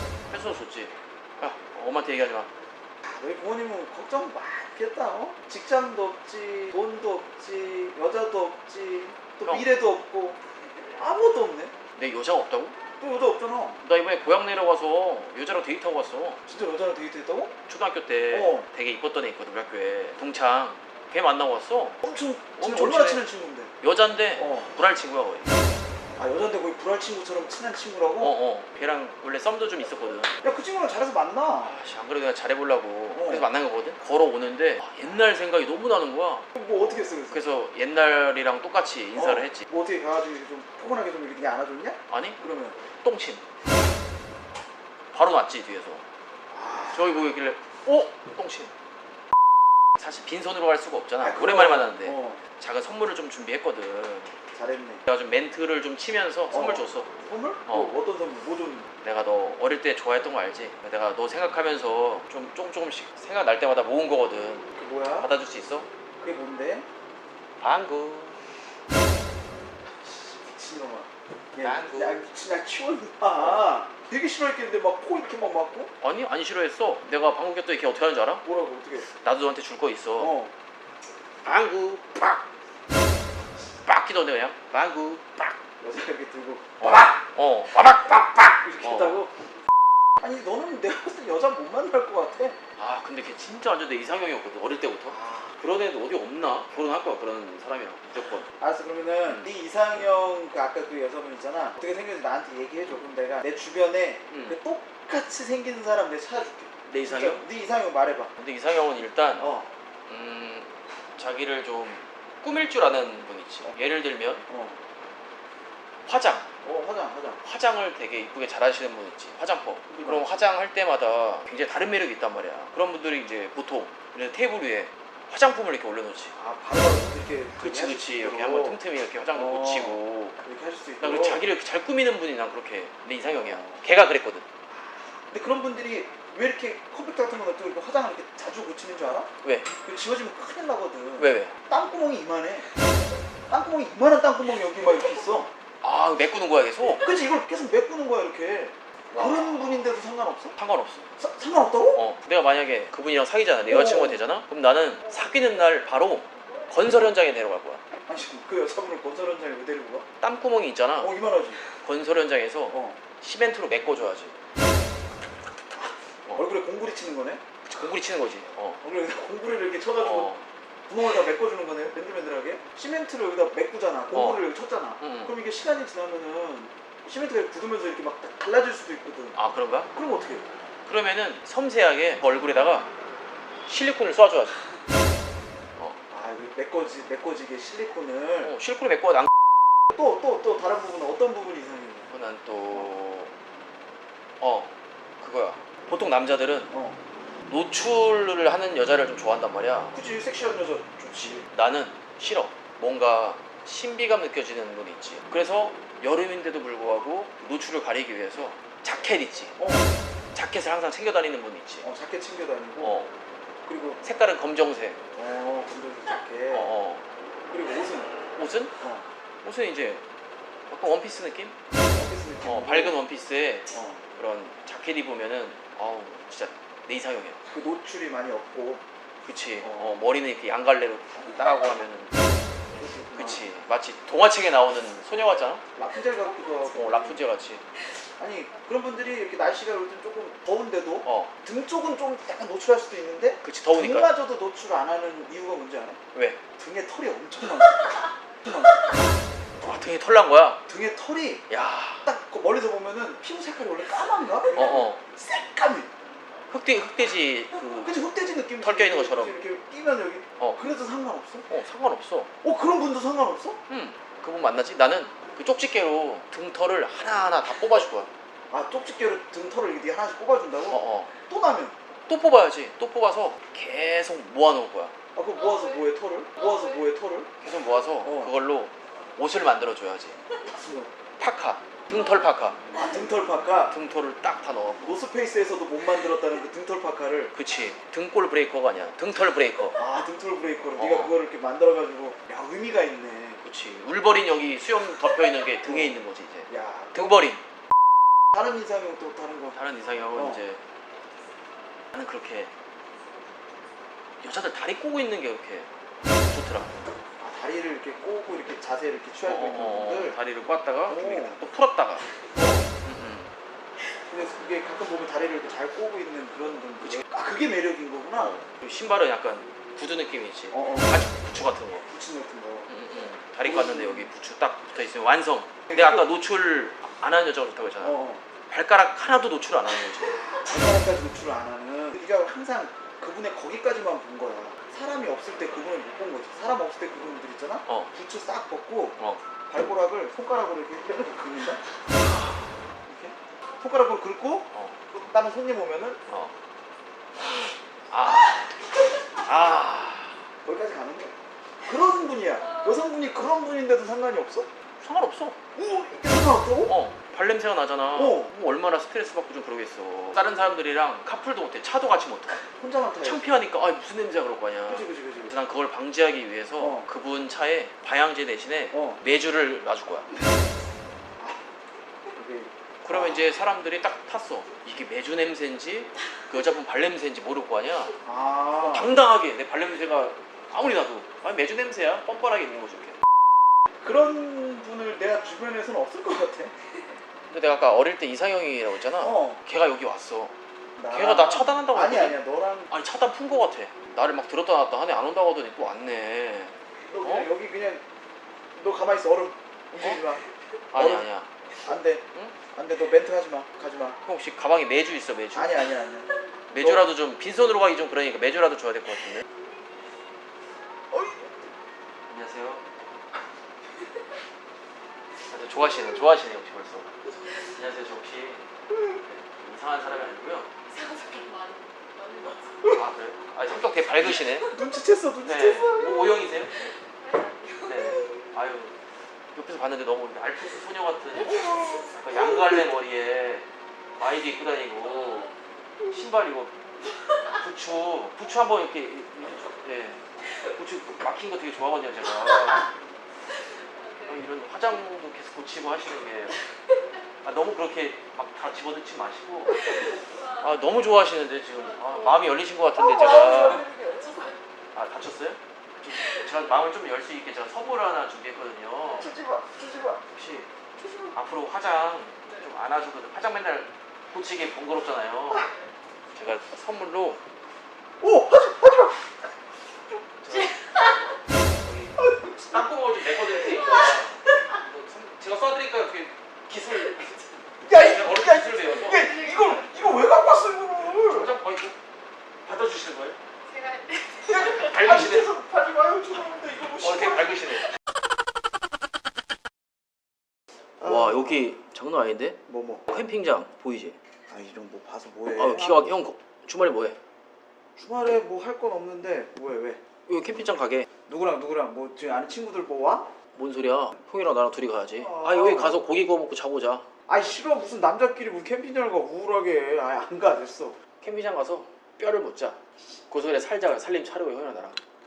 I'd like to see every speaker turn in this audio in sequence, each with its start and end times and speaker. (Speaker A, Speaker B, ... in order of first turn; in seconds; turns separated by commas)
Speaker A: 0.3-2.5, Speaker B: 3.0-10.4, Speaker B: 11.0-11.7, Speaker A: 12.0-12.8, Speaker B: 13.0-13.8, Speaker A: 13.8-16.4, Speaker B: 16.5-17.5, Speaker A: 17.7-22.0, Speaker B: 18.3-18.6, Speaker B: 22.0-23.7, Speaker A: 22.6-23.2, Speaker A: 23.8-25.6, Speaker B: 24.4-24.7, Speaker B: 26.2-28.3, Speaker A: 28.2-30.4, Speaker B: 30.4-31.7, Speaker A: 31.6-36.5, Speaker B: 33.1-33.5, Speaker B: 36.5-37.5, Speaker A: 37.3-39.7, Speaker B: 39.1-42.8, Speaker A: 42.1-42.4, Speaker A: 43.0-43.4, Speaker A: 45.1-46.0, Speaker B: 46.5-47.1, Speaker A: 46.9-48.7, Speaker A: 50.0-54.3, Speaker B: 51.2-52.4, Speaker B: 54.5-55.0, Speaker A: 55.0-57.1, Speaker B: 56.5-58.9, Speaker A: 57.7-57.9, Speaker A: 59.0-65.9, Speaker B: 64.7-65.3, Speaker B: 66.2-66.8, Speaker A: 67.6-68.4, Speaker B: 70.0-75.9, Speaker A: 71.6-72.2, Speaker A: 76.0-78.4, Speaker B: 78.4-79.1, Speaker A: 79.0-80.3, Speaker B: 80.2-80.5, Speaker A: 81.4-82.4, Speaker A: 83.8-85.6, Speaker B: 85.8-87.2, Speaker A: 86.8-89.2, Speaker B: 88.5-89.3, Speaker B: 90.2-92.6, Speaker A: 92.8-98.5, Speaker B: 95.1-95.6, Speaker B: 98.6-108.3, Speaker A: 104.3-104.5, Speaker A: 106.9-107.5, Speaker A: 108.4-109.5, Speaker B: 109.4-109.7, Speaker A: 110.1-114.5, Speaker B: 114.5-114.8, Speaker A: 116.0-116.5, Speaker B: 116.6-117.4, Speaker A: 117.4-126.3, Speaker B: 119.9-120.3, Speaker B: 126.3-128.8, Speaker A: 127.6-130.4, Speaker B: 129.3-131.4, Speaker A: 131.0-134.4, Speaker B: 133.3-133.8, Speaker B: 134.7-142.7, Speaker A: 139.4-139.7, Speaker A: 141.2-141.5, Speaker B: 143.5-145.5, Speaker A: 145.8-147.1, Speaker B: 147.0-150.6, Speaker A: 149.1-149.8, Speaker A: 150.6-151.1, Speaker B: 151.2-152.0, Speaker A: 151.9-157.8, Speaker B: 153.7-154.2, Speaker B: 158.1-160.1, Speaker A: 160.2-161.1, Speaker B: 161.0-161.6, Speaker A: 161.7-164.3, Speaker B: 162.7-163.0, Speaker B: 165.8-167.4, Speaker A: 167.7-168.8, Speaker B: 168.8-170.3, Speaker A: 170.0-170.4, Speaker B: 170.9-179.4, Speaker A: 174.1-174.4, Speaker A: 175.0-175.3, Speaker A: 179.3-179.9, Speaker B: 179.9-180.4, Speaker A: 180.8-182.9, Speaker A: 183.7-184.6, Speaker B: 186.1-188.5, Speaker A: 188.4-189.3, Speaker B: 189.9-192.1, Speaker A: 192.1-193.3, Speaker A: 194.4-196.7, Speaker B: 196.7-197.0, Speaker A: 197.5-199.9, Speaker B: 199.9-201.4, Speaker A: 201.5-209.6, Speaker B: 209.6-209.9, Speaker A: 210.3-211.9, Speaker B: 211.8-212.9, Speaker A: 212.8-213.1, Speaker B: 213.7-214.0, Speaker A: 214.0-215.0, Speaker B: 215.2-216.7, Speaker A: 216.5-217.0, Speaker B: 217.5-218.1, Speaker A: 218.3-218.8, Speaker B: 218.8-219.1, Speaker A: 219.4-220.0, Speaker A: 220.7-221.6, Speaker B: 221.9-223.0, Speaker A: 222.4-227.4, Speaker B: 223.7-224.0, Speaker B: 227.5-228.8, Speaker A: 229.2-232.3, Speaker B: 229.6-229.9, Speaker B: 232.7-233.5, Speaker A: 233.1-235.6, Speaker B: 235.8-237.2, Speaker A: 236.7-237.6, Speaker B: 238.2-246.0, Speaker A: 241.0-241.3, Speaker A: 243.4-244.1, Speaker A: 246.1-246.4, Speaker B: 246.6-248.9, Speaker A: 249.6-250.6, Speaker B: 250.7-251.5, Speaker A: 251.5-252.1, Speaker B: 252.0-255.9, Speaker A: 254.5-255.0, Speaker A: 256.5-258.0, Speaker B: 257.8-261.4, Speaker A: 258.6-259.3, Speaker A: 261.5-262.3, Speaker B: 262.4-263.6, Speaker A: 263.7-268.1, Speaker B: 268.5-271.7, Speaker A: 270.7-271.1, Speaker A: 272.1-274.9, Speaker B: 275.1-277.3, Speaker A: 277.4-280.2, Speaker B: 278.0-278.3, Speaker B: 280.4-280.9, Speaker A: 281.2-282.6, Speaker B: 282.7-283.8, Speaker A: 283.7-285.0, Speaker B: 284.8-287.3, Speaker A: 287.3-289.8, Speaker B: 289.8-293.4, Speaker A: 290.8-291.1, Speaker A: 293.4-297.4, Speaker B: 295.6-297.1, Speaker B: 298.3-299.6, Speaker A: 299.5-300.6, Speaker B: 300.1-300.4, Speaker A: 301.9-302.5, Speaker A: 304.2-305.7, Speaker A: 306.3-306.7, Speaker B: 307.2-310.1, Speaker A: 309.2-312.0, Speaker B: 310.9-311.4, Speaker B: 312.3-312.7, Speaker A: 312.8-313.3, Speaker B: 314.1-318.4, Speaker A: 318.1-321.9, Speaker B: 320.5-320.9, Speaker B: 321.9-322.7, Speaker A: 322.7-330.2, Speaker B: 323.4-324.1, Speaker B: 325.7-326.0, Speaker B: 327.8-328.2, Speaker B: 330.0-341.6, Speaker A: 342.0-342.5, Speaker B: 342.9-346.0, Speaker A: 344.5-344.8, Speaker A: 346.1-346.3, Speaker A: 347.2-348.6, Speaker A: 349.1-350.2, Speaker B: 350.4-354.5, Speaker A: 354.8-355.4, Speaker B: 355.5-356.7, Speaker A: 356.6-362.4, Speaker B: 357.9-358.3, Speaker B: 362.6-363.4, Speaker A: 363.0-370.1, Speaker B: 364.7-365.4, Speaker B: 366.6-366.9, Speaker B: 368.7-369.0, Speaker B: 372.1-373.4, Speaker A: 372.8-377.9, Speaker B: 378.0-379.0, Speaker A: 378.6-383.0, Speaker B: 383.8-386.5, Speaker A: 387.3-390.3, Speaker B: 389.0-389.4, Speaker B: 390.8-392.7, Speaker A: 390.9-392.2, Speaker A: 392.7-397.3, Speaker B: 396.9-397.8, Speaker B: 398.6-400.2, Speaker A: 400.7-401.3, Speaker B: 400.7-401.1, Speaker B: 401.6-404.0, Speaker A: 404.1-405.7, Speaker B: 405.3-406.8, Speaker A: 406.5-409.2, Speaker B: 410.9-411.2, Speaker A: 412.1-412.6, Speaker A: 415.3-418.4, Speaker A: 419.4-420.5, Speaker C: 420.7-422.7, Speaker A: 422.7-424.5, Speaker B: 424.4-426.1, Speaker A: 425.2-426.6, Speaker C: 427.0-427.9, Speaker A: 427.6-428.7, Speaker A: 429.3-433.4, Speaker B: 431.2-432.5, Speaker A: 434.0-435.3, Speaker A: 435.9-436.5, Speaker A: 437.3-442.7, Speaker A: 444.0-446.4, Speaker A: 447.2-449.8, Speaker A: 450.3-453.7, Speaker B: 452.7-454.2, Speaker C: 453.9-454.3, Speaker A: 454.7-459.1, Speaker B: 458.9-460.0, Speaker A: 460.1-460.5, Speaker B: 460.8-461.1, Speaker A: 461.1-465.4, Speaker A: 466.1-467.2, Speaker B: 468.0-469.0, Speaker A: 470.2-470.9, Speaker A: 471.6-479.1, Speaker B: 472.0-472.7, Speaker B: 477.6-481.3, Speaker A: 480.9-481.8, Speaker A: 482.4-483.2, Speaker C: 483.5-484.1, Speaker B: 484.2-487.3, Speaker A: 484.3-485.3, Speaker A: 486.8-487.7, Speaker B: 490.8-491.5, Speaker A: 490.8-494.0, Speaker B: 492.5-492.9, Speaker B: 494.3-495.9, Speaker A: 495.3-497.0, Speaker B: 497.8-499.8, Speaker A: 500.1-500.9, Speaker B: 501.1-503.1, Speaker A: 503.3-506.9, Speaker B: 504.9-505.8, Speaker B: 507.1-510.8, Speaker A: 511.0-514.8